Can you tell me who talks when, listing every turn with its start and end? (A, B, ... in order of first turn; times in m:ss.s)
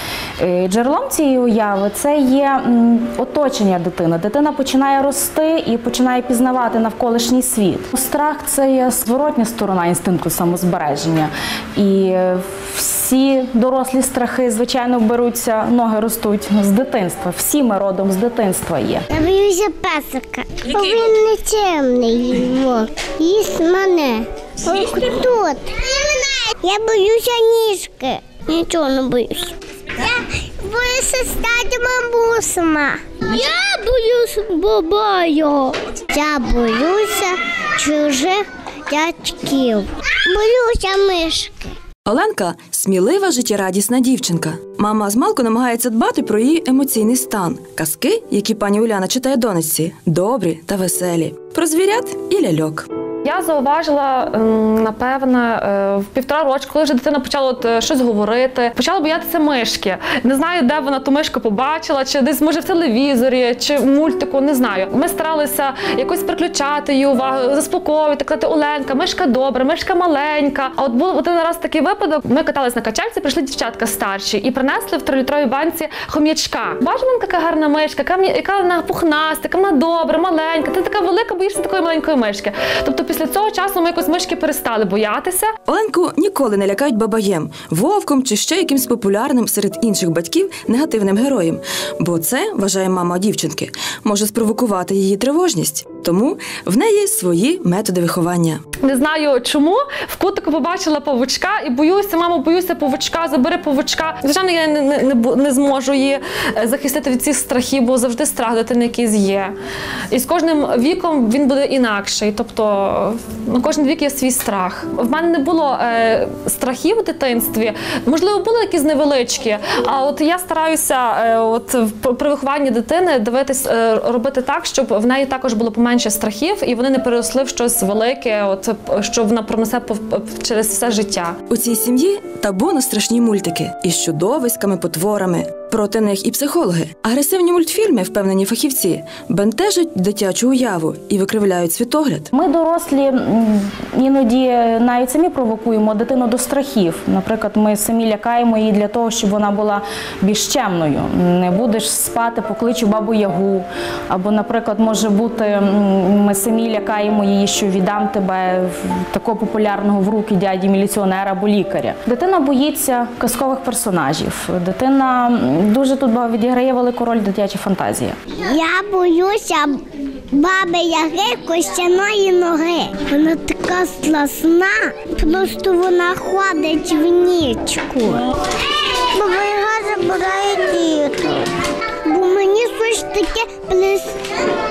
0:00.4-0:19.0 A
0:19.1-0:41.6 B
0:42.0-0:52.9 C
0:53.2-1:25.5 D
1:25.6-1:38.6 C
1:38.8-1:49.5 D
1:50.1-2:11.4 D
2:11.5-2:22.3 C
2:22.3-2:48.2 A
2:48.4-2:58.2 B
2:59.1-3:01.5 B
3:02.0-3:04.2 B